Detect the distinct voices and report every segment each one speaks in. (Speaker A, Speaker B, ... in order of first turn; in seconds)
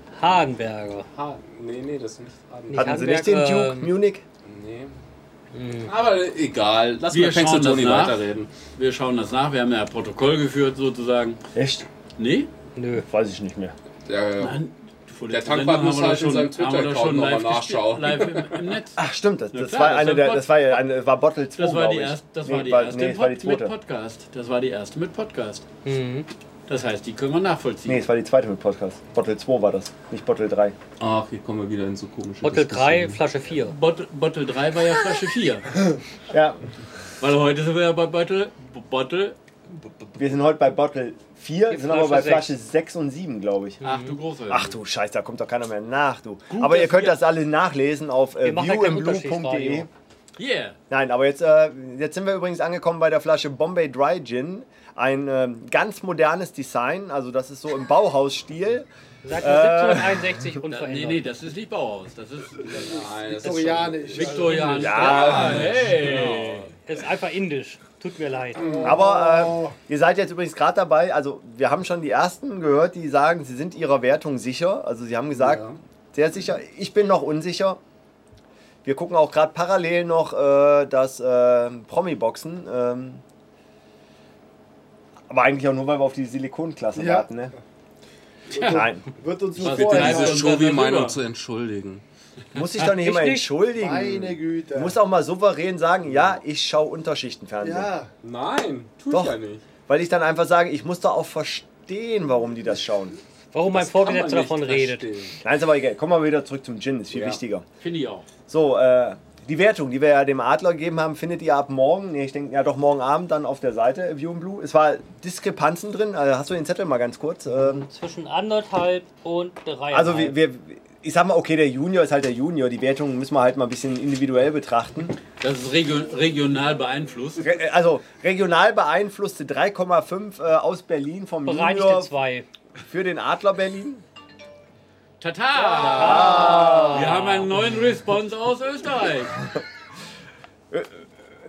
Speaker A: 0.2-1.1, 2.7-3.9, 5.5-5.9, 12.8-13.1, 25.8-26.3, 32.4-33.7, 41.7-42.5, 43.8-44.1, 48.4-49.9, 59.2-61.2, 63.4-63.9, 66.7-68.7, 92.8-93.5, 103.5-105.0, 117.5-120.4, 131.4-132.4, 135.9-137.5
Speaker B: 1.1-3.0, 4.4-5.0, 5.8-8.5, 14.0-14.6, 15.3-18.6, 31.0-33.2, 62.6-66.1, 68.6-68.9, 75.3-75.8, 89.6-92.0, 96.1-96.4, 98.2-99.6, 103.7-105.4, 107.1-107.4
Speaker C: 2.7-4.2, 11.5-11.9, 12.9-13.7, 19.0-23.7, 27.9-30.8, 36.3-36.6, 40.1-43.8, 44.5-49.9, 50.9-60.4, 64.8-65.8, 68.8-77.8, 78.8-83.2, 85.3-87.5, 88.7-89.0, 92.5-97.9, 99.9-103.1, 105.4-107.7, 108.5-117.9, 119.9-125.2, 127.4-132.1, 132.8-134.0, 135.6-137.2, 140.7-141.1
Speaker D: 7.1-11.4, 12.2-12.5, 14.4-19.0, 19.5-20.5, 21.6-25.6, 26.7-28.0, 33.6-35.7, 37.2-39.4, 43.8-44.8, 46.5-47.2, 50.4-50.8, 60.7-62.9, 64.1-66.7, 88.5-88.8, 89.6-91.2, 107.8-108.3, 125.4-127.5, 135.2-139.4
Speaker E: 62.7-65.0, 68.6-69.8, 86.9-87.3, 88.5-90.5, 93.8-95.0, 97.6-98.1